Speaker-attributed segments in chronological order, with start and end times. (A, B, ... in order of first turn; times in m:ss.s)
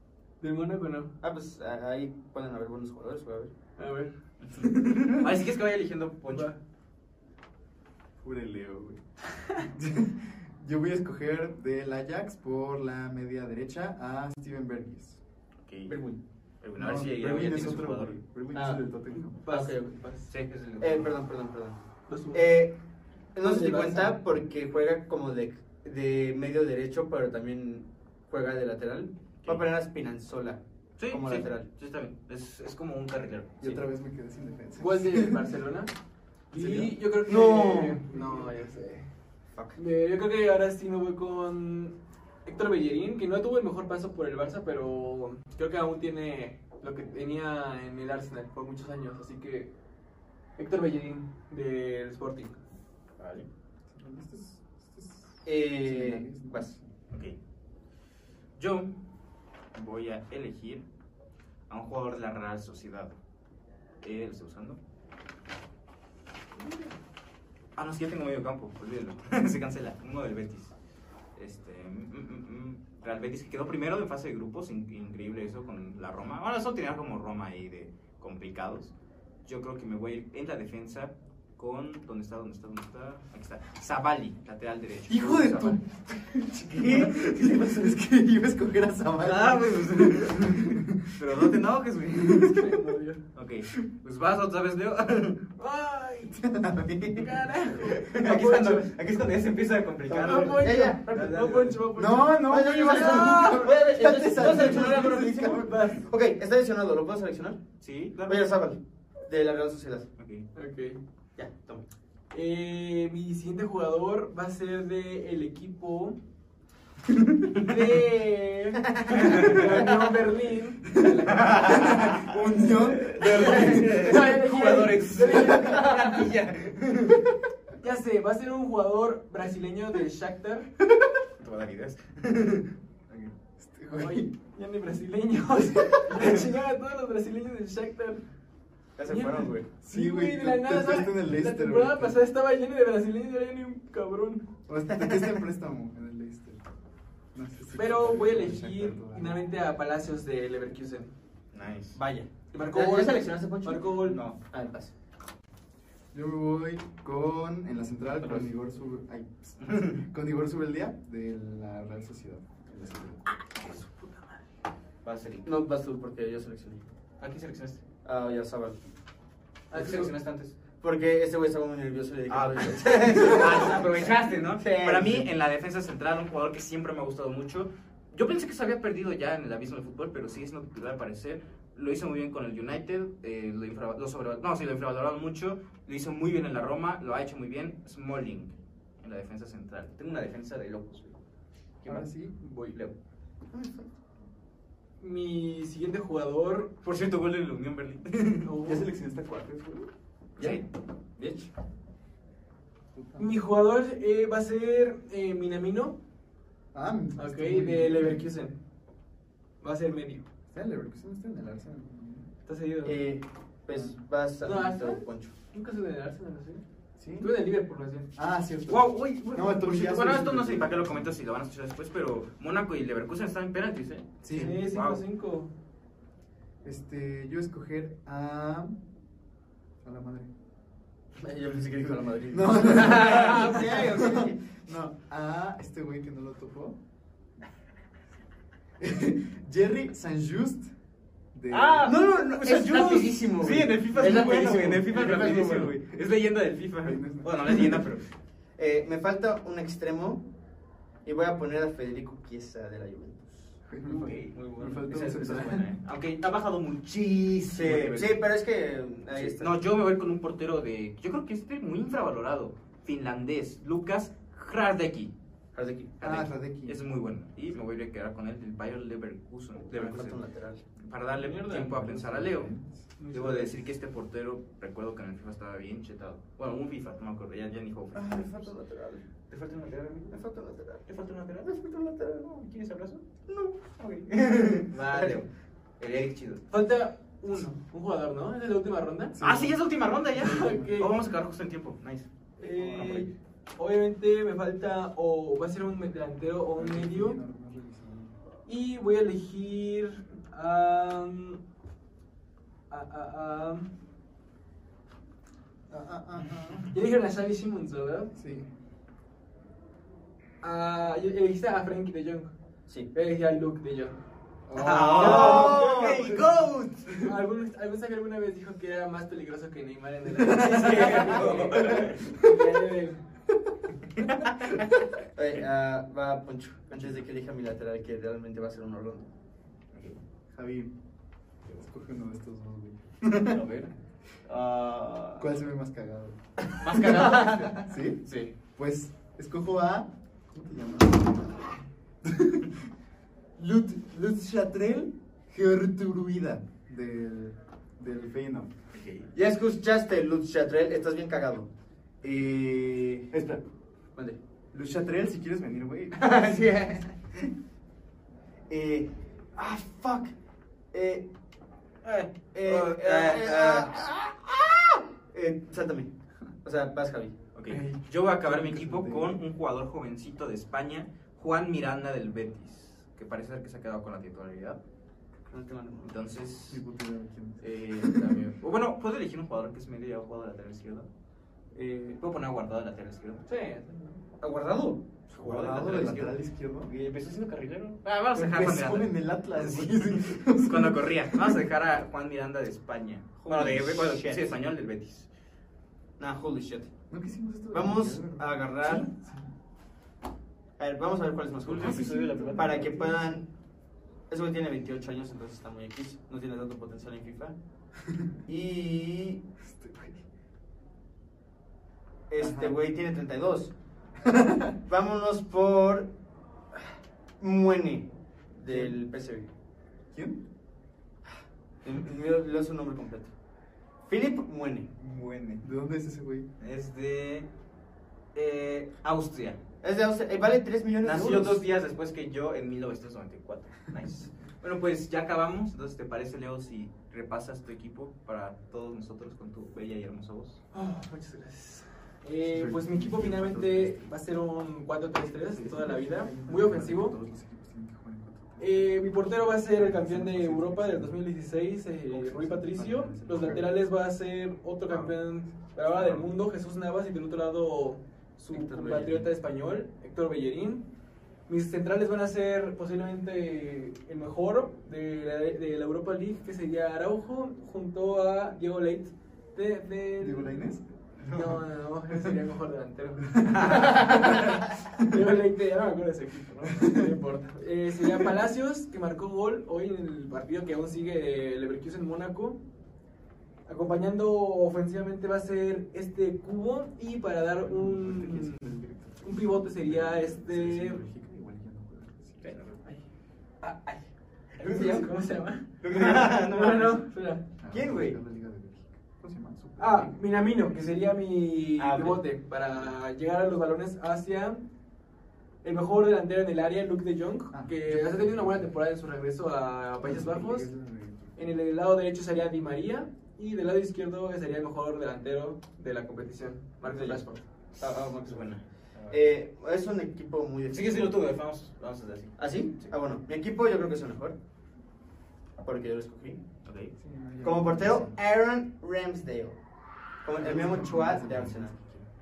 0:00.4-0:01.2 A
0:01.2-0:03.5 B
0:03.8-0:04.7 A
0:04.4-0:06.5 C
0:06.3-0:06.6 A
0:08.2-0:09.0 D
0:09.7-0:15.2 D
0:15.7-0:16.0 C
0:15.9-0:16.2 B
0:16.6-0:18.2 C
0:16.8-0:19.4 D
0:18.5-0:18.8 B
0:19.2-0:20.3 A
0:19.5-0:20.0 B
0:20.3-0:21.1 C
0:20.8-0:22.8 B
0:22.1-0:22.5 A
0:23.4-0:31.7 B
0:23.4-0:24.2 A
0:31.0-0:33.8 C
0:33.6-0:35.5 D
0:34.8-0:35.9 A
0:36.5-0:39.1 A
0:36.5-0:36.9 D
0:37.2-0:38.0 B
0:38.1-0:38.6 D
0:39.8-0:49.7 A
0:50.6-0:52.6 A
0:53.2-0:53.5 C
0:53.9-0:56.9 D
0:55.4-0:56.7 B
0:58.6-0:58.9 C
0:59.8-1:00.8 C
1:01.7-1:03.2 C
1:04.0-1:04.8 C
1:07.8-1:10.7 C
1:11.4-1:18.9 C
1:19.4-1:25.8 C
1:25.1-1:31.6 D
1:26.7-1:27.7 C
1:29.2-1:32.8 C
1:32.3-1:32.6 D
1:32.4-1:33.2 A
1:33.4-1:35.5 C
1:35.6-1:36.4 A
1:36.3-1:37.3 D
1:37.1-1:38.9 A
1:38.0-1:41.8 C
1:40.1-1:43.7 A
1:40.1-1:41.6 B
1:41.9-1:45.8 D
1:42.4-1:47.6 B
1:44.4-1:46.1 A
1:47.8-1:48.5 C
1:48.3-1:50.1 B
1:50.2-1:50.5 C
1:50.6-1:51.0 A
1:51.4-1:51.8 B
1:52.3-1:56.2 A
1:57.6-2:02.1 A
1:58.9-1:59.9 B
1:59.1-1:59.7 C
2:01.0-2:04.2 D
2:01.3-2:02.3 C
2:03.0-2:07.2 C
2:03.0-2:06.3 A
2:07.8-2:10.7 A
2:11.4-2:13.3 C
2:13.6-2:14.3 D
2:13.9-2:18.2 A
2:19.0-2:19.7 B
2:19.1-2:24.5 A
2:19.8-2:22.2 D
2:24.7-2:26.6 D
2:24.9-2:25.4 B
2:27.3-2:29.4 D
2:27.8-2:31.1 A
2:31.5-2:32.0 C
2:31.9-2:34.0 B
2:32.5-2:34.2 A
2:34.1-2:34.4 C
2:34.5-2:34.9 B
2:36.1-2:43.2 D
2:38.2-2:38.5 C
2:39.6-2:40.0 C
2:43.6-2:44.4 A
2:45.0-2:45.5 C
2:45.4-2:46.8 B
2:47.2-2:47.8 C
2:48.0-2:48.8 B
2:49.7-2:50.1 A
2:49.7-2:50.6 C
2:50.8-2:55.3 B
2:52.3-3:11.2 C
3:11.8-3:12.1 C
3:11.9-3:12.4 D
3:12.4-3:12.8 A
3:13.5-3:13.9 B
3:15.0-3:16.7 A
3:16.8-3:18.5 C
3:18.4-3:18.9 A
3:18.6-3:19.9 D
3:20.4-3:20.6 C
3:20.4-3:20.6 B
3:21.2-3:21.5 B
3:23.0-3:23.4 D
3:23.2-3:26.0 A
3:26.7-3:28.2 D
3:27.2-3:28.6 A
3:29.6-3:30.3 A
3:30.5-3:32.3 D
3:32.5-3:33.0 A
3:32.8-3:35.3 B
3:34.4-3:36.6 A
3:37.0-3:37.4 D
3:37.2-3:38.1 A
3:38.2-3:41.1 D
3:38.7-3:45.0 C
3:44.2-3:44.6 D
3:44.3-3:45.5 A
3:46.6-3:48.8 D
3:49.8-3:50.3 D
3:51.2-3:54.4 B
3:52.3-3:56.8 D
3:52.9-3:53.4 C
3:58.8-4:00.7 D
4:01.3-4:01.9 D
4:01.5-4:08.0 C
4:01.8-4:05.7 B
4:06.8-4:07.8 D
4:08.6-4:10.3 B
4:11.0-4:13.5 B
4:13.7-4:15.7 D
4:13.9-4:18.2 C
4:17.5-4:19.5 B
4:19.1-4:25.1 C
4:25.5-4:26.0 B
4:26.0-4:30.2 C
4:26.0-4:26.8 D
4:29.7-4:30.6 B
4:30.8-4:32.5 C
4:31.2-4:31.7 A
4:31.4-4:32.8 D
4:33.0-4:33.6 A
4:33.1-4:38.5 C
4:38.0-4:39.1 B
4:39.3-4:40.2 C
4:40.1-4:40.8 B
4:40.9-4:43.0 C
4:43.3-4:43.6 B
4:43.6-4:45.3 C
4:44.7-4:45.2 B
4:45.8-4:46.4 C
4:46.5-4:49.2 A
4:49.1-4:49.6 D
4:49.2-4:53.1 C
4:50.1-4:50.8 D
4:50.2-4:50.9 A
4:52.4-4:57.2 A
4:56.6-4:58.1 D
4:58.5-5:01.4 A
5:02.7-5:03.7 A
5:05.7-5:06.7 D
5:06.7-5:08.1 A
5:08.2-5:08.5 D
5:10.4-5:12.3 A
5:12.9-5:14.0 A
5:14.5-5:15.7 D
5:14.6-5:16.8 C
5:14.9-5:16.5 B
5:15.0-5:16.1 A
5:17.0-5:23.0 A
5:20.2-5:22.1 C
5:22.0-5:22.3 D
5:24.0-5:24.6 C
5:25.2-5:29.1 B
5:29.7-5:30.0 C
5:30.3-5:30.7 D
5:31.5-5:33.4 D
5:33.2-5:33.7 C
5:34.3-5:35.3 C
5:35.2-5:36.2 D
5:36.6-5:38.3 C
5:36.7-5:42.5 D
5:36.8-5:37.6 B
5:43.4-5:48.5 D
5:48.7-5:49.1 C
5:49.1-5:51.5 B
5:52.0-5:53.1 B
5:53.1-5:53.4 D
5:54.5-5:56.0 D
5:56.0-5:57.3 B
5:58.5-6:00.1 B
6:00.7-6:01.1 B
6:01.8-6:03.7 C
6:02.3-6:05.9 B
6:06.4-6:07.1 B
6:07.4-6:14.6 C
6:07.5-6:09.2 D
6:15.3-6:16.0 B
6:15.8-6:16.6 C
6:16.5-6:18.2 D
6:17.4-6:20.9 C
6:21.5-6:22.0 B
6:22.0-6:23.2 C
6:23.3-6:24.0 A
6:24.2-6:24.8 B
6:25.1-6:26.2 C
6:25.2-6:26.7 D
6:26.7-6:35.1 C
6:28.1-6:31.4 D
6:33.3-6:34.2 B
6:36.0-6:36.7 B
6:36.9-6:39.3 D
6:37.5-6:38.9 B
6:40.6-6:43.3 B
6:41.4-6:42.9 C
6:41.6-6:43.2 D
6:44.1-6:47.4 B
6:48.3-6:49.2 B
6:49.4-6:50.0 D
6:52.1-6:53.5 B
6:52.2-6:52.6 D
6:54.0-6:54.6 D
6:54.7-6:55.9 B
6:57.2-6:59.3 B
6:58.5-6:58.7 D
6:59.9-7:00.2 D
7:01.6-7:03.1 B
7:03.9-7:04.7 B
7:04.8-7:05.4 C
7:05.4-7:06.3 D
7:06.4-7:07.3 C
7:08.2-7:09.4 C
7:09.6-7:11.4 B
7:10.8-7:20.4 C
7:20.5-7:27.0 A
7:22.3-7:23.9 D
7:25.3-7:31.0 D
7:28.4-7:40.7 A
7:31.9-7:33.5 D
7:35.7-7:36.0 C
7:38.3-7:39.1 B
7:41.3-7:50.5 A
7:50.0-7:50.7 D
7:51.0-7:51.4 C
7:51.1-8:02.4 A
7:53.3-7:54.2 C
8:03.5-8:10.8 A
8:07.4-8:12.4 D
8:12.2-8:12.6 C
8:13.4-8:13.8 A
8:14.4-8:14.9 C
8:14.4-8:17.3 A
8:15.6-8:16.8 C
8:17.4-8:20.0 D
8:17.5-8:18.0 B
8:19.6-8:24.4 A
8:21.6-8:22.0 C
8:25.4-8:30.5 A
8:27.3-8:28.5 D
8:29.8-8:31.3 D
8:31.2-8:37.2 A
8:36.6-8:37.0 B
8:37.6-8:39.1 C
8:37.6-8:38.4 B
8:38.9-8:41.0 B
8:40.5-8:42.7 C
8:42.2-8:44.2 B
8:45.4-8:46.2 B
8:46.4-8:46.7 C
8:46.8-8:48.0 D
8:47.2-8:49.4 B
8:50.0-8:51.5 B
8:50.1-8:51.9 D